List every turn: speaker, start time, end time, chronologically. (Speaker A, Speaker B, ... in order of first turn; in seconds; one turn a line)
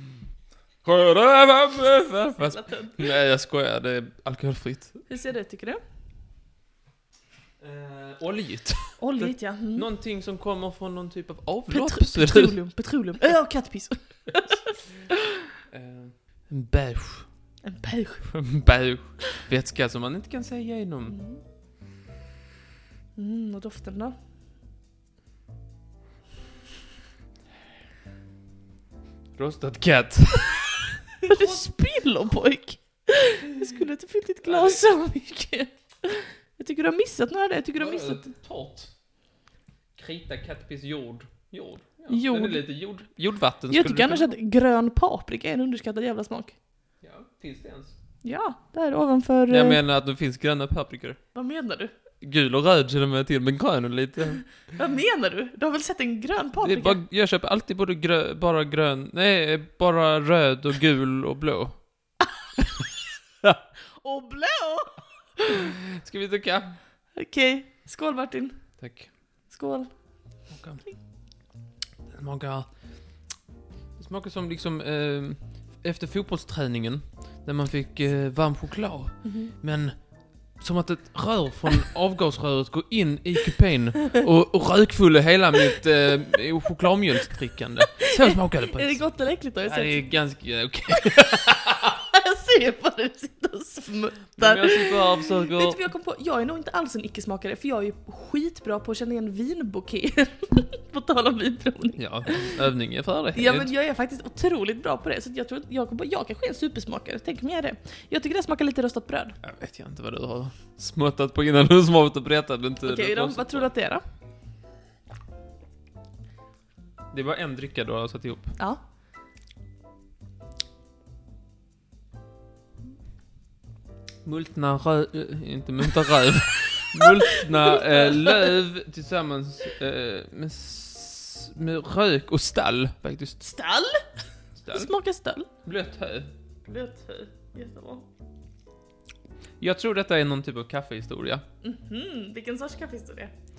Speaker A: 0.8-5.0
Speaker B: 2.4-3.0
Speaker B: 5.1-5.8
Speaker A: 7.6-12.5
Speaker B: 9.0-9.8
Speaker B: 11.7-15.2
Speaker A: 15.7-17.3
Speaker B: 17.6-18.3
Speaker A: 18.3-21.1
Speaker B: 21.1-21.4
Speaker B: 23.1-24.1
Speaker A: 29.4-31.6
Speaker B: 31.2-38.2
Speaker A: 34.4-34.8
Speaker A: 37.8-38.9
Speaker A: 40.0-44.3
Speaker B: 42.1-42.6
Speaker B: 43.7-46.5
Speaker A: 47.0-47.9
Speaker B: 48.2-49.8
Speaker A: 49.5-51.2
Speaker B: 51.3-51.9
Speaker A: 52.2-54.4
Speaker B: 54.7-57.0
Speaker A: 56.6-61.9
Speaker B: 64.0-65.7
Speaker A: 65.7-66.8
Speaker B: 67.2-68.7
Speaker A: 68.8-69.1
Speaker B: 69.5-69.9
Speaker A: 70.5-70.8
Speaker A: 72.1-72.7
Speaker A: 74.0-89.0
Speaker B: 79.2-79.5
Speaker B: 88.0-90.0
Speaker A: 89.6-92.0
Speaker B: 91.0-102.6
Speaker A: 94.4-95.8
Speaker A: 102.0-103.7
Speaker B: 103.3-109.4
Speaker A: 109.4-113.7
Speaker B: 112.8-114.0
Speaker A: 117.1-118.5
Speaker A: 124.2-133.4
Speaker B: 126.8-128.5
Speaker B: 133.4-134.0
Speaker A: 134.6-134.9
Speaker B: 134.7-135.5
Speaker A: 135.6-136.3
Speaker B: 136.6-138.0
Speaker A: 139.6-141.4
Speaker B: 141.6-143.3